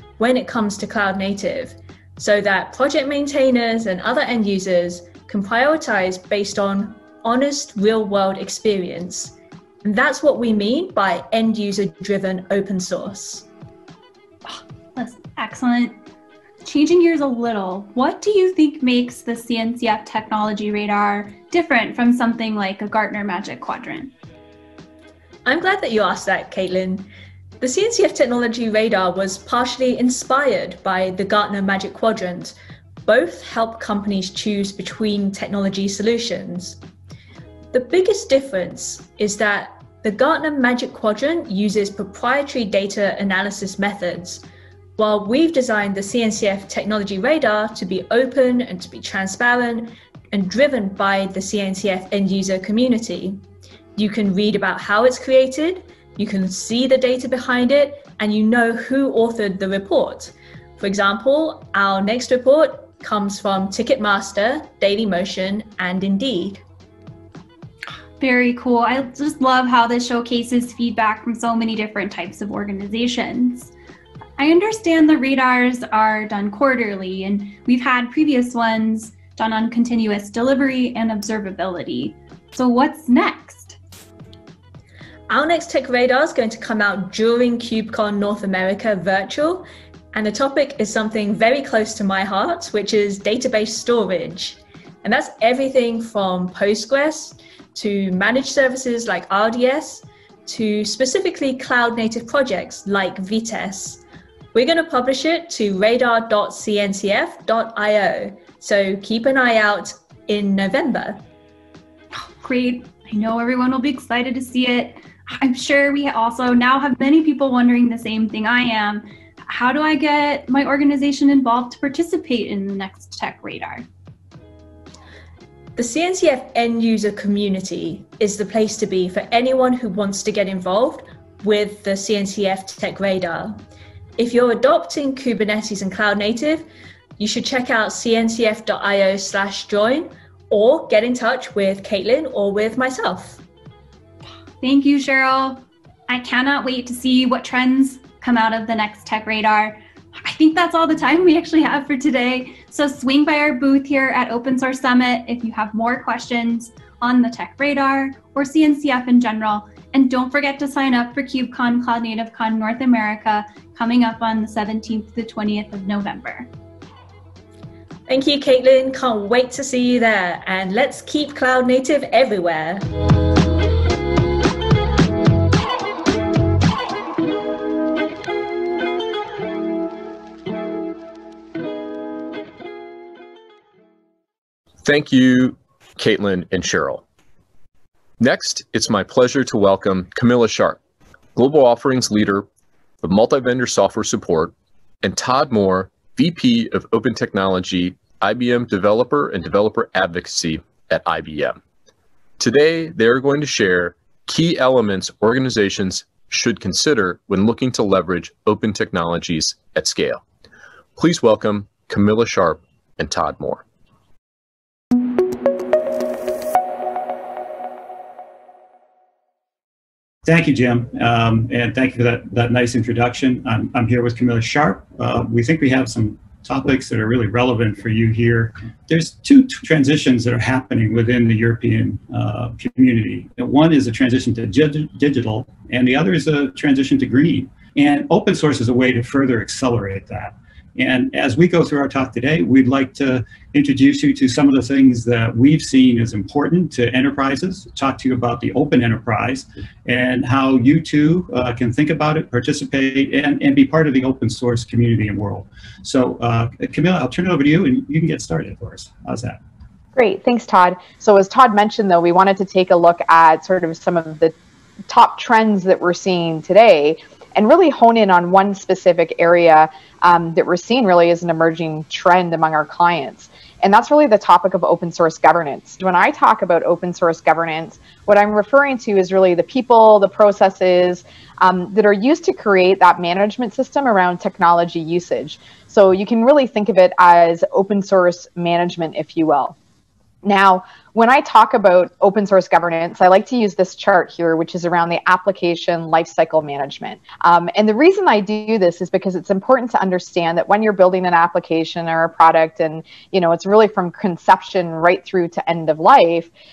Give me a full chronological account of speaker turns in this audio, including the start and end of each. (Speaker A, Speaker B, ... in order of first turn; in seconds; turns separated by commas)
Speaker A: 0.2-13.4, Speaker B: 14.5-16.0, Speaker B: 16.6-24.1, Speaker A: 25.4-27.1, Speaker A: 27.6-36.8, Speaker A: 37.7-44.4, Speaker A: 45.0-53.4, Speaker A: 54.0-66.6, Speaker B: 68.2-73.7, Speaker B: 74.4-83.8, Speaker A: 85.3-104.0, Speaker A: 104.5-111.2, Speaker B: 112.4-123.8, Speaker A: 125.8-133.6, Speaker A: 134.2-136.7, Speaker A: 137.2-143.4, Speaker B: 144.6-166.5, Speaker A: 168.1-172.8, Speaker C: 184.8-187.0, Speaker C: 188.2-190.8, Speaker C: 191.3-192.4, Speaker C: 193.0-201.6, Speaker C: 202.4-210.2, Speaker C: 210.9-213.6, Speaker D: 220.2-259.4, Speaker E: 259.9-264.3, Speaker E: 264.9-289.6, Speaker E: 290.2-306.3